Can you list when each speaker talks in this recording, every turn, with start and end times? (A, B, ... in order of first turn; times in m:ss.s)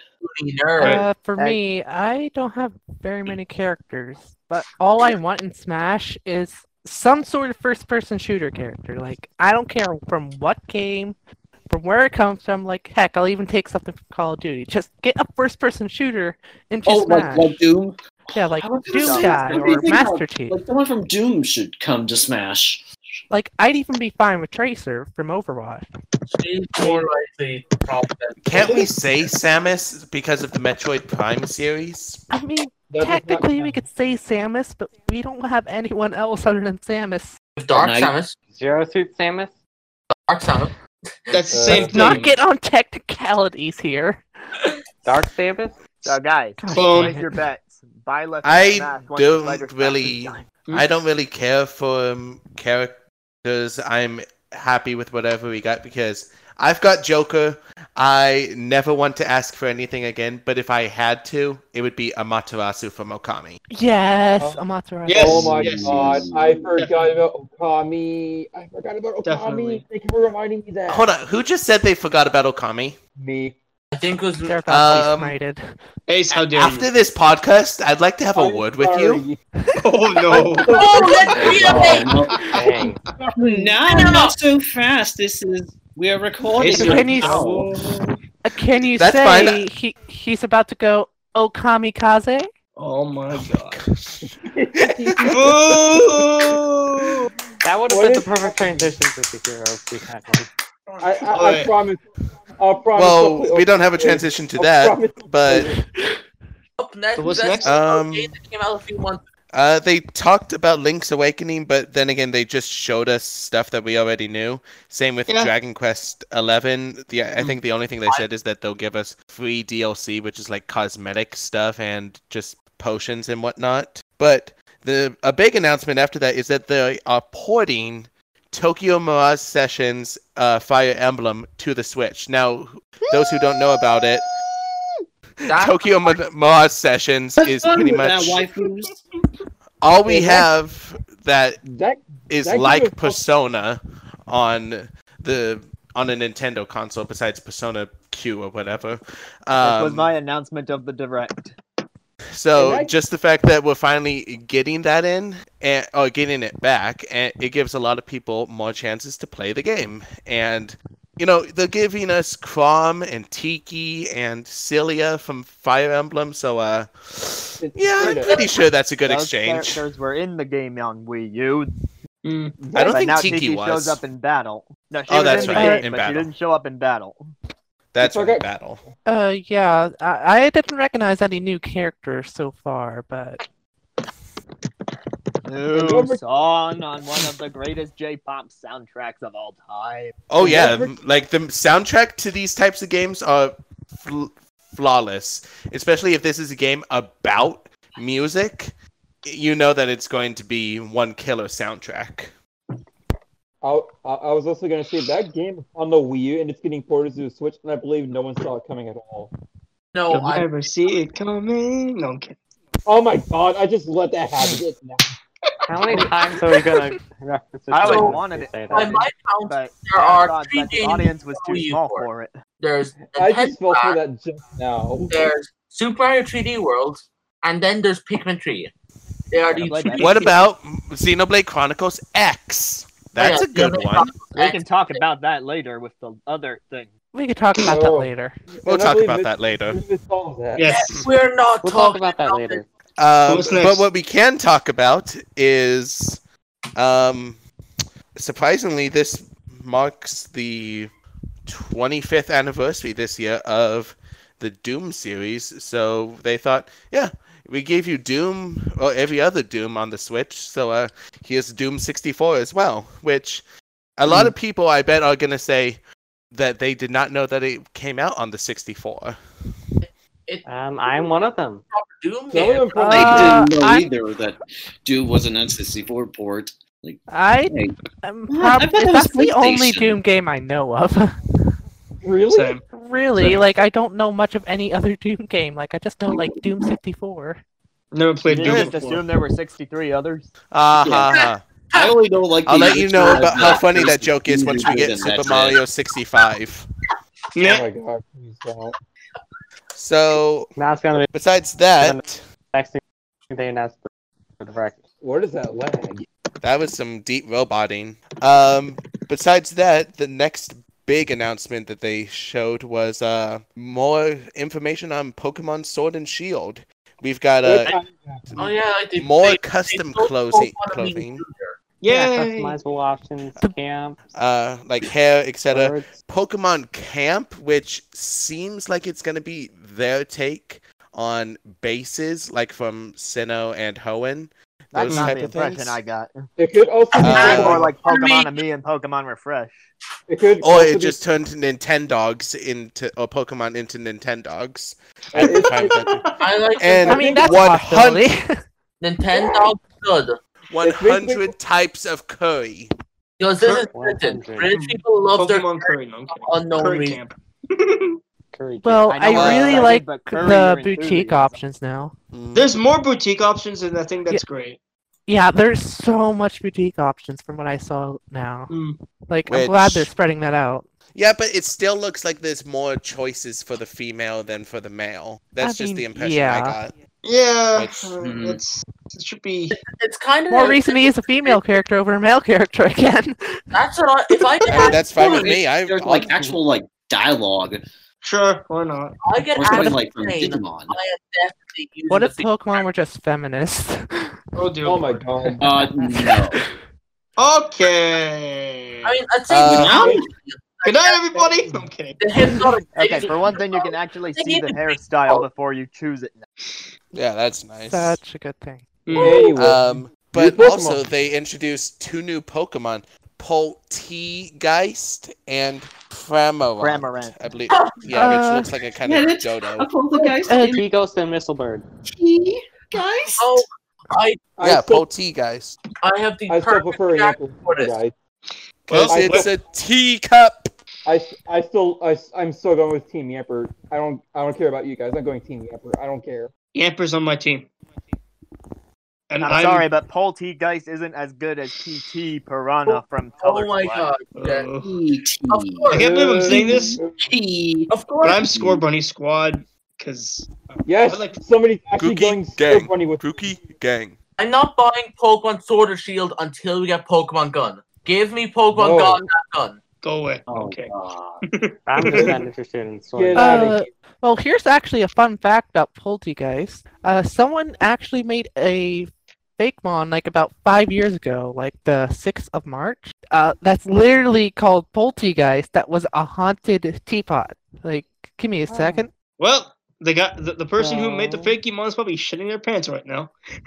0:00.2-0:01.0 A
0:00.8-0:11.1 B
0:11.7-0:17.6 B
0:16.8-0:22.8 C
0:18.3-0:20.6 B
0:18.9-0:19.8 D
0:23.3-0:25.9 B
0:26.3-0:28.9 A
0:28.4-0:32.2 E
0:28.5-0:28.8 F
0:32.3-0:37.3 B
0:32.9-0:33.8 G
0:37.6-0:38.3 A
0:37.7-0:38.1 C
0:38.5-0:39.5 H
0:40.3-0:40.7 A
0:41.3-0:42.4 F
0:41.5-0:42.2 G
0:41.7-0:44.2 B
0:45.0-0:45.8 H
0:46.0-0:50.4 D
0:46.6-0:47.3 B
0:46.7-0:47.2 F
0:48.4-1:03.6 E
1:03.7-1:05.6 B
1:04.4-1:11.1 G
1:05.0-1:06.2 F
1:05.2-1:06.7 C
1:06.8-1:07.2 F
1:09.2-1:09.8 F
1:10.9-1:13.0 E
1:13.2-1:13.6 G
1:13.9-1:14.6 A
1:14.4-1:15.7 B
1:14.7-1:15.4 E
1:16.1-1:16.9 F
1:16.5-1:19.2 E
1:18.3-1:19.4 G
1:19.8-1:22.7 F
1:20.3-1:22.0 G
1:20.7-1:22.1 A
1:21.3-1:22.7 C
1:22.6-1:23.0 H
1:23.2-1:23.8 G
1:23.4-1:27.7 C
1:23.8-1:24.3 A
1:26.5-1:28.2 F
1:26.7-1:27.5 B
1:28.4-1:32.5 B
1:29.0-1:29.6 E
1:32.8-1:33.8 F
1:33.3-1:35.3 E
1:34.5-1:36.0 G
1:35.2-1:37.3 F
1:37.6-1:40.5 H
1:37.9-1:39.0 G
1:40.9-1:41.7 F
1:41.0-1:45.8 G
1:43.0-1:45.7 E
1:46.8-1:49.2 A
1:47.2-1:47.8 F
1:47.6-1:48.4 E
1:49.5-2:14.3 E
1:55.3-1:55.5 F
2:15.4-2:18.4 E
2:15.5-2:15.9 A
2:17.4-2:19.0 C
2:19.8-2:21.6 E
2:20.0-2:20.5 G
2:21.6-2:23.2 G
2:22.3-2:30.1 E
2:29.6-2:31.6 D
2:32.3-2:49.8 E
2:32.5-2:32.9 G
2:47.6-2:48.5 G
2:48.0-2:48.4 D
2:49.0-2:51.7 D
2:52.2-2:52.6 F
2:52.6-2:53.4 G
2:52.7-2:54.0 E
2:52.9-2:57.3 D
2:55.1-2:56.3 E
2:55.4-2:55.8 B
2:57.9-2:58.8 E
2:58.0-2:58.5 G
2:59.0-3:03.4 B
3:05.4-3:10.2 D
3:05.7-3:06.2 G
3:10.3-3:22.3 E
3:10.4-3:10.9 G
3:23.6-3:29.3 G
3:29.9-3:30.4 A
3:30.1-3:32.4 F
3:32.8-3:35.2 G
3:35.7-3:39.0 H
3:35.7-3:36.2 F
3:37.7-3:42.3 D
3:37.8-3:38.1 A
3:38.7-3:42.1 A
3:42.6-3:44.0 A
3:43.1-3:45.3 G
3:45.1-3:48.7 A
3:49.3-3:50.3 A
3:49.5-3:50.3 D
3:50.0-3:54.1 E
3:53.2-3:55.0 A
3:54.3-3:56.9 D
3:57.1-3:58.4 B
3:57.6-4:00.7 G
3:58.6-3:59.8 E
4:00.6-4:01.1 F
4:00.6-4:02.6 A
4:01.6-4:02.7 H
4:03.0-4:06.2 E
4:03.2-4:03.9 F
4:06.8-4:07.4 E
4:08.1-4:10.9 E
4:11.4-4:23.4 E
4:24.0-4:25.8 E
4:26.3-4:29.2 E
4:29.8-4:31.2 A
4:30.4-4:31.6 H
4:31.7-4:32.8 A
4:32.3-4:33.4 G
4:32.8-4:33.9 B
4:32.9-4:37.8 C
4:37.1-4:41.2 B
4:38.3-4:40.0 C
4:42.0-4:42.6 G
4:42.3-4:42.6 F
4:42.7-4:47.4 B
4:43.2-4:43.4 F
4:46.1-4:46.4 C
4:47.9-4:49.1 F
4:48.2-4:50.3 D
4:50.5-4:51.4 E
4:50.8-4:51.1 C
4:51.1-4:51.9 A
4:51.7-4:55.6 C
4:52.4-4:56.7 E
4:57.4-4:57.6 F
4:57.4-4:58.7 G
4:59.7-5:00.5 E
5:00.6-5:01.1 H
5:01.1-5:02.2 E
5:01.8-5:03.9 H
5:04.4-5:04.8 H
5:05.0-5:06.0 G
5:06.4-5:17.8 E
5:17.4-5:18.3 G
5:18.3-5:21.2 E
5:18.4-5:21.6 A
5:21.8-5:22.6 F
5:21.9-5:24.0 H
5:24.1-5:35.8 E
5:25.5-5:26.0 H
5:34.7-5:36.2 D
5:36.4-5:37.7 G
5:37.0-5:37.7 E
5:37.0-5:38.4 A
5:37.1-5:39.6 D
5:40.1-5:41.0 G
5:40.4-5:46.0 E
5:45.1-5:45.8 G
5:45.2-5:46.2 F
5:46.2-5:47.2 A
5:46.6-5:48.1 E
5:46.8-5:47.4 G
5:46.9-5:48.4 B
5:48.8-5:50.2 A
5:50.5-5:52.7 E
5:50.6-5:51.3 G
5:53.2-5:57.0 A
5:53.7-5:54.5 H
5:54.5-5:58.0 F
5:58.3-5:58.9 H
5:58.6-6:01.9 B
5:58.8-6:01.4 D
5:59.1-5:59.6 E
6:02.1-6:02.5 E
6:02.3-6:04.6 F
6:05.1-6:08.5 B
6:08.5-6:08.8 F
6:09.1-6:10.7 B
6:09.3-6:09.9 E
6:10.9-6:16.7 E
6:15.4-6:16.6 B
6:17.0-6:19.6 F
6:17.5-6:17.9 E
6:18.0-6:18.4 C
6:19.6-6:21.4 A
6:20.3-6:23.4 B
6:23.5-6:25.3 A
6:24.5-6:26.3 E
6:24.6-6:27.6 C
6:28.0-6:29.0 F
6:29.0-6:32.6 A
6:29.3-6:30.8 C
6:31.9-6:34.1 B
6:34.4-6:35.3 F
6:34.6-6:35.4 G
6:35.4-6:36.4 C
6:37.2-6:38.9 F
6:38.8-6:41.2 A
6:39.3-6:39.9 E
6:39.5-6:40.0 F
6:39.6-6:40.0 C
6:40.6-6:42.4 F
6:41.2-6:41.7 G
6:42.0-6:45.2 A
6:42.7-6:46.2 D
6:46.9-6:48.0 E
6:47.7-6:49.0 B
6:48.8-6:49.3 F
6:48.9-6:50.9 G
6:49.3-6:59.7 E
6:56.6-6:57.1 D
6:57.5-6:57.8 A
6:57.9-6:58.5 B
6:58.8-7:00.6 C
7:00.3-7:00.6 B
7:00.5-7:01.6 H
7:01.8-7:03.4 C
7:03.2-7:04.2 A
7:04.4-7:04.8 G
7:04.4-7:05.6 E
7:05.8-7:07.8 A
7:06.3-7:07.9 G
7:08.7-7:09.3 F
7:08.7-7:10.5 E
7:08.8-7:09.3 G
7:10.8-7:16.3 G
7:16.5-7:17.5 F
7:19.1-7:19.7 F
7:19.2-7:23.9 D
7:23.2-7:24.5 A
7:24.1-7:24.7 F
7:24.6-7:25.7 C
7:25.3-7:25.8 A
7:25.7-7:26.8 F
7:25.7-7:27.0 G
7:26.3-7:27.7 C
7:27.7-7:28.2 A
7:28.0-7:31.2 F
7:28.2-7:28.6 C
7:30.6-7:33.3 G
7:31.8-7:34.0 E
7:34.2-7:39.6 A
7:38.5-7:39.1 G
7:39.8-7:40.7 F
7:40.3-7:41.2 C
7:41.2-7:42.2 F
7:41.7-7:43.5 H
7:42.9-7:43.7 G
7:43.1-7:58.9 B
7:58.5-7:58.9 H
7:59.2-8:03.1 F
8:00.6-8:01.4 H